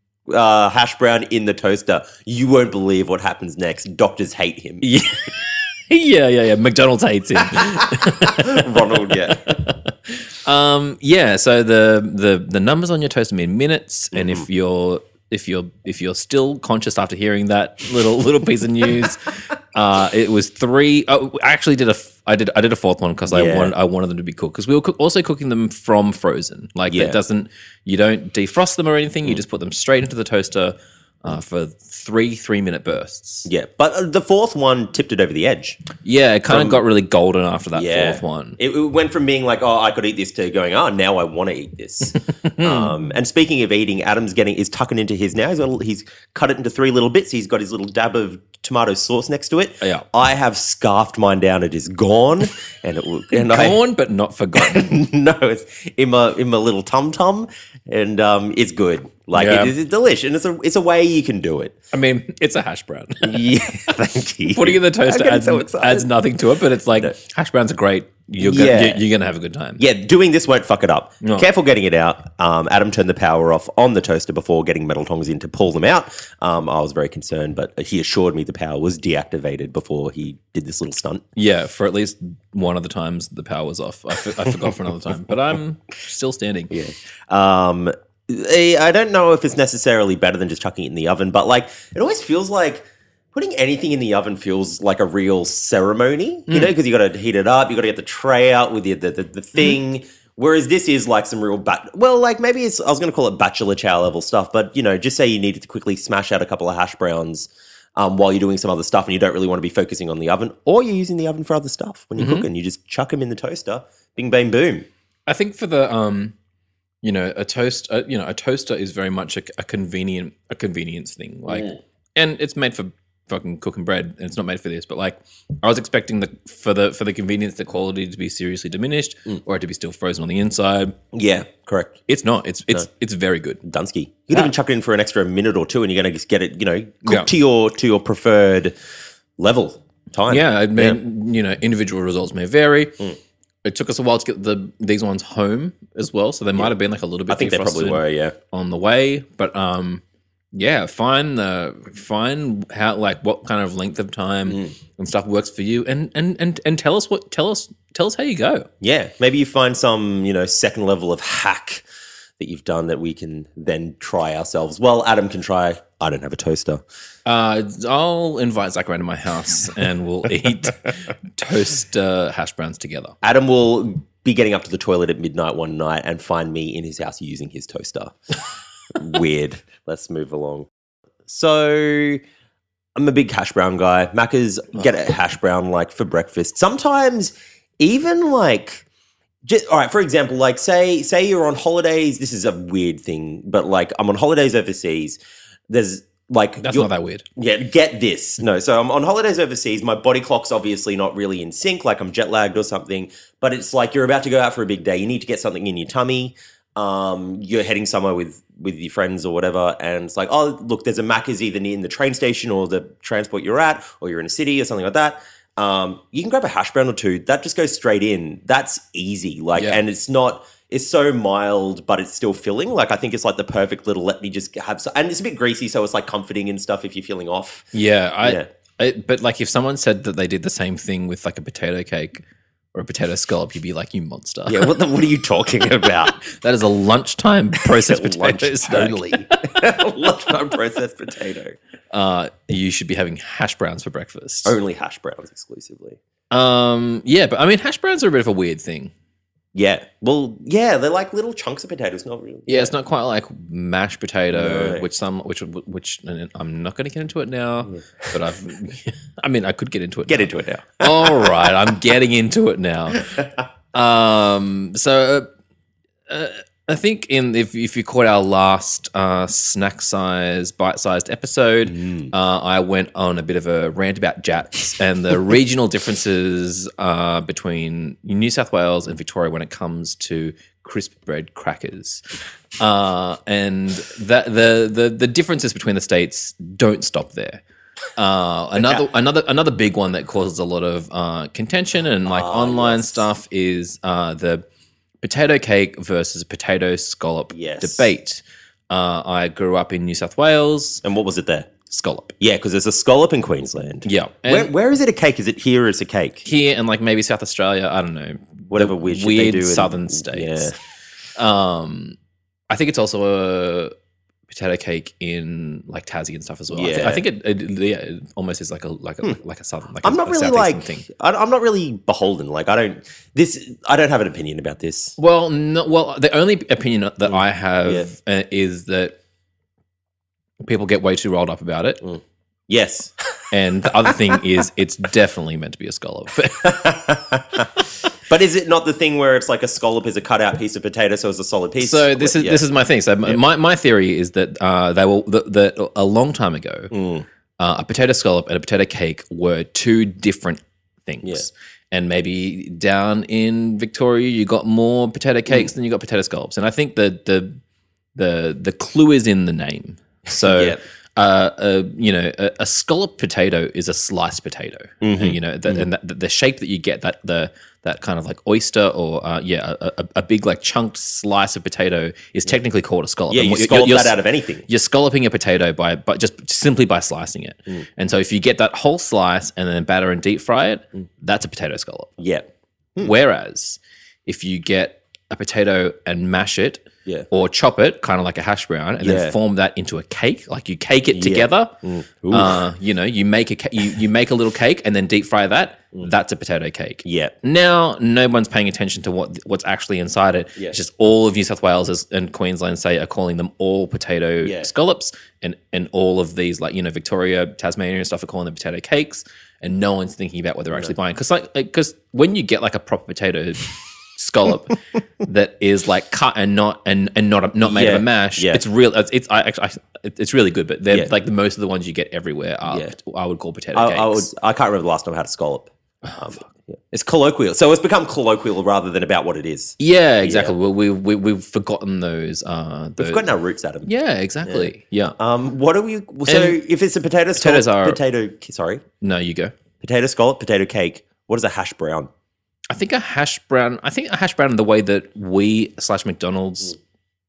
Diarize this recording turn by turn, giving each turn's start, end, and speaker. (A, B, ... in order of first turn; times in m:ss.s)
0:00.3-0:04.8 A
0:04.8-0:33.5 B
0:08.2-0:09.4 A
0:14.1-0:14.4 A
0:23.3-0:23.7 A
0:26.9-0:27.2 A
0:33.4-0:35.9 A
0:36.0-0:38.6 B
0:36.5-0:36.8 A
0:37.7-0:53.8 A
0:42.4-0:42.9 B
0:53.3-0:54.9 B
0:54.5-1:01.7 A
0:59.3-0:59.7 B
1:01.9-1:03.5 B
1:03.2-1:06.1 A
1:04.5-1:09.8 B
1:08.4-1:09.0 A
1:09.8-1:21.2 A
1:11.2-1:11.5 B
1:21.4-1:26.7 B
1:24.4-1:24.8 A
1:26.7-1:54.9 A
1:36.5-1:36.7 B
1:52.2-1:52.5 B
1:55.3-1:56.3 B
1:57.0-2:10.9 B
2:01.5-2:01.8 A
2:11.1-2:12.0 A
2:12.1-2:13.6 B
2:13.6-2:18.7 A
2:17.0-2:17.3 B
2:19.4-2:21.0 A
2:20.3-2:23.1 B
2:23.6-2:30.0 B
2:27.3-2:28.4 A
2:30.5-2:38.7 B
2:34.5-2:34.7 A
2:38.8-2:41.8 A
2:42.4-2:46.8 A
2:47.2-2:53.1 B
2:53.2-2:58.2 A
2:58.9-3:00.7 A
3:01.2-3:02.2 A
3:02.9-3:08.8 A
3:09.4-3:47.7 A
3:16.6-3:17.2 B
3:39.6-3:39.8 B
3:47.7-3:54.8 B
3:54.5-3:56.2 A
3:56.2-3:59.2 B
3:57.6-4:01.6 A
4:01.9-4:04.6 B
4:04.4-4:06.0 A
4:06.3-4:08.9 B
4:09.5-4:12.7 A
4:12.5-4:23.1 B
4:14.3-4:14.9 A
4:17.7-4:18.1 A
4:20.1-4:21.3 A
4:23.7-4:25.3 B
4:26.1-4:42.0 B
4:31.8-4:32.1 A
4:42.6-4:47.4 B
4:48.0-4:54.4 B
4:52.0-4:53.1 A
4:55.0-5:00.8 B
4:57.3-4:57.9 A
5:00.8-5:01.5 A
5:01.7-5:02.1 B
5:02.2-5:06.2 A
5:03.8-5:04.5 B
5:06.2-5:10.5 B
5:08.5-5:10.5 A
5:11.2-5:12.0 B
5:12.5-5:13.7 B
5:14.3-5:20.8 B
5:16.5-5:17.0 A
5:19.8-5:25.0 A
5:25.0-5:29.0 B
5:27.0-5:27.9 A
5:30.4-5:31.8 B
5:31.8-5:33.0 A
5:33.3-5:36.6 B
5:36.4-5:42.4 A
5:41.6-5:46.7 B
5:46.7-5:47.0 A
5:47.4-5:57.3 B
5:57.9-6:22.0 B
6:00.2-6:00.6 A
6:04.8-6:05.7 A
6:13.1-6:14.4 A
6:22.0-6:22.9 A
6:22.8-6:31.5 B
6:28.8-6:29.2 A
6:30.9-6:32.4 A
6:32.1-7:04.1 B
6:36.8-6:37.1 A
6:44.2-6:44.5 A
6:57.4-6:58.4 A
7:03.5-7:10.3 A
7:05.8-7:06.3 B
7:09.6-7:13.1 B
7:12.8-7:13.7 A
7:13.6-7:15.0 B
7:14.2-7:18.6 A
7:16.1-7:16.4 B
7:17.1-7:17.8 B
7:18.8-7:19.3 B
7:19.6-7:21.9 A
7:22.5-7:26.6 B